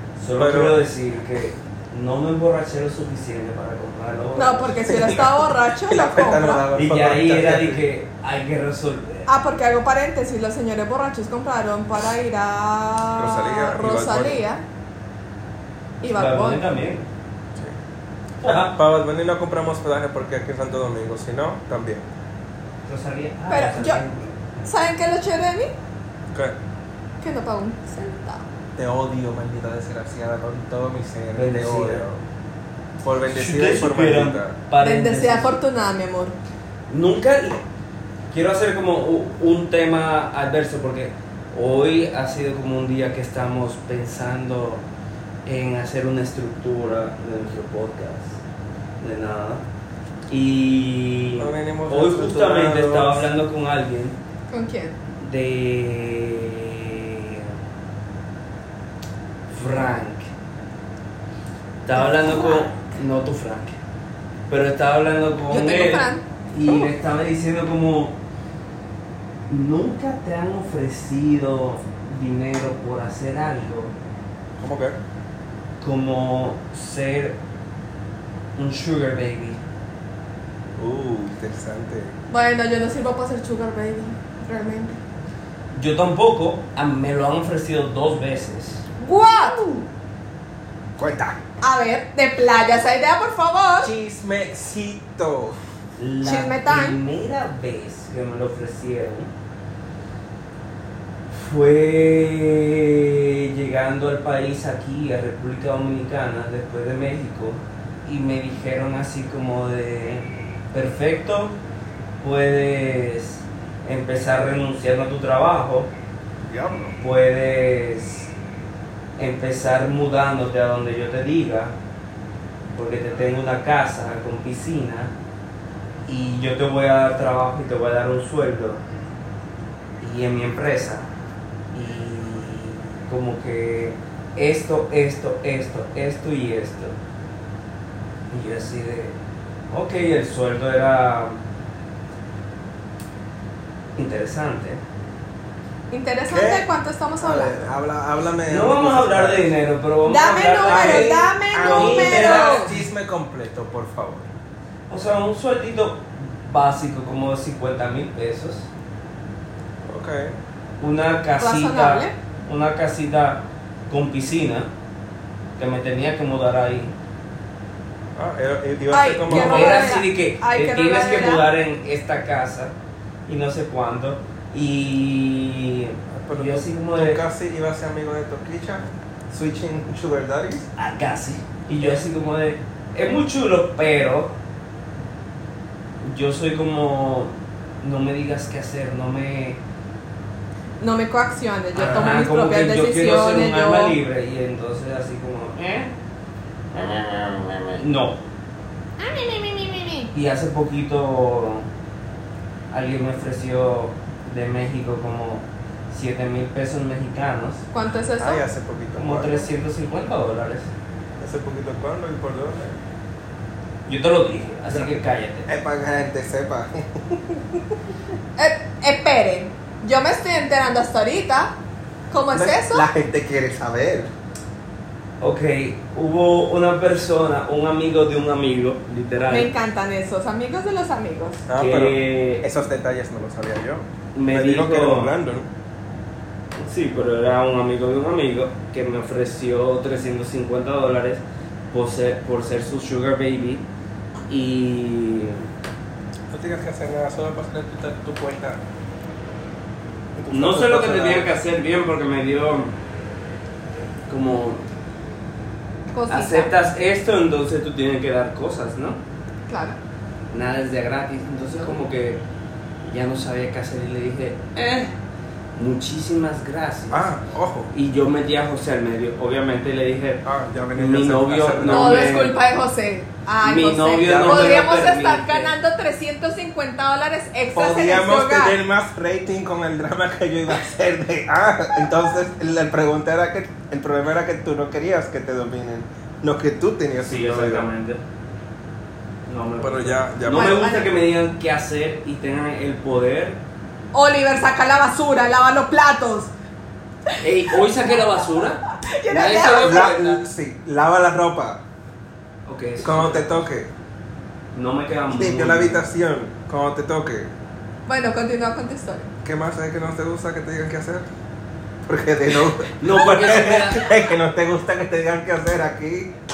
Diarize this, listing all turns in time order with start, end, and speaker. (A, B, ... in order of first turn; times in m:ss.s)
0:00.2-0:04.8 A
0:00.3-0:00.8 B
0:04.4-0:06.6 C
0:04.8-0:07.8 B
0:06.7-0:09.3 A
0:09.3-0:14.6 C
0:13.2-0:14.4 B
0:16.0-0:16.6 C
0:16.1-0:17.1 A
0:18.4-0:18.8 A
0:18.4-0:22.1 B
0:22.9-0:24.6 A
0:23.5-0:24.0 C
0:24.6-0:25.7 C
0:26.3-0:26.6 B
0:27.2-0:28.5 C
0:28.8-0:32.2 B
0:31.4-0:32.0 A
0:33.0-0:34.6 B
0:33.3-0:35.5 A
0:34.8-0:36.4 C
0:36.9-0:37.6 A
0:38.3-0:44.8 A
0:45.4-0:48.4 A
0:49.0-0:49.6 A
0:50.3-0:54.2 A
0:51.4-0:53.3 B
0:54.5-0:55.0 C
0:55.2-0:57.5 A
0:59.5-1:00.3 A
1:01.8-1:03.8 A
1:02.0-1:02.6 C
1:04.5-1:08.2 A
1:05.5-1:06.2 C
1:09.5-1:14.0 A
1:14.6-1:15.0 B
1:15.8-1:17.4 A
1:18.6-1:19.6 A
1:20.8-1:22.2 B
1:22.3-1:25.0 C
1:25.7-1:28.8 A
1:29.0-1:29.6 C
1:29.4-1:29.8 B
1:31.0-1:31.4 B
1:31.6-1:33.9 C
1:33.8-1:35.6 B
1:36.0-1:39.3 A
1:36.2-1:37.0 C
1:41.3-1:51.6 A
1:52.2-1:55.9 A
1:56.5-1:57.0 B
1:57.0-1:58.3 A
1:59.2-2:01.8 A
2:02.8-2:05.1 A
2:06.1-2:08.8 A
2:10.0-2:11.1 A
2:11.7-2:17.0 A
2:18.3-2:19.2 A
2:19.7-2:21.4 A
2:24.0-2:24.8 A
2:25.9-2:27.6 C
2:26.3-2:26.7 B
2:27.2-2:29.5 B
2:28.5-2:32.8 A
2:30.0-2:32.7 C
2:30.6-2:34.3 B
2:34.9-2:38.7 A
2:39.8-2:40.4 B
2:40.8-2:44.7 A
2:41.4-2:42.1 C
2:45.6-2:47.0 A
2:48.2-2:49.9 B
2:48.9-2:51.5 C
2:49.3-2:52.7 A
2:53.3-2:57.2 A
2:56.1-3:00.7 B
3:00.8-3:04.3 A
3:06.0-3:09.6 A
3:10.8-3:14.0 C
3:11.8-3:15.9 A
3:16.7-3:18.2 A
3:19.0-3:20.1 C
3:20.1-3:21.7 A
3:22.7-3:27.6 A
3:27.7-3:28.4 C
3:28.2-3:29.5 B
3:29.0-3:30.7 A
3:31.2-3:32.8 B
3:33.9-3:35.5 A
3:34.7-3:37.8 B
3:38.4-3:41.5 C
3:42.1-3:42.9 C
3:42.3-3:44.1 B
3:45.2-3:49.5 A
3:49.3-3:51.4 C
3:51.5-3:55.5 B
3:51.6-3:52.4 A
3:54.1-3:55.1 A
3:56.6-4:03.6 A
4:04.3-4:05.5 A
4:06.3-4:08.6 B
4:10.2-4:11.4 B
4:10.3-4:12.8 A
4:14.1-4:14.6 A
4:15.9-4:16.5 C
4:16.1-4:19.0 A
4:19.5-4:19.8 C
4:20.3-4:22.2 A
4:22.8-4:24.9 A
4:25.6-4:27.1 A
4:26.9-4:27.7 B
4:27.7-4:32.4 A
4:30.2-4:32.1 B
4:31.7-4:38.6 C
4:33.4-4:35.5 A
4:34.0-4:34.6 B
4:37.6-4:47.7 B
4:47.0-4:48.0 A
4:49.3-4:53.4 A
4:49.6-4:50.7 B
4:50.2-4:50.9 C
4:53.9-4:56.3 C
4:57.1-4:57.6 C
4:57.2-5:00.2 A
4:58.8-5:00.0 C
4:59.5-5:01.6 B
5:02.5-5:03.4 A
5:02.8-5:03.7 B
5:04.5-5:05.8 A
5:05.1-5:07.3 B
5:07.9-5:09.1 C
5:09.2-5:11.1 B
5:11.9-5:16.1 B
5:12.8-5:13.9 A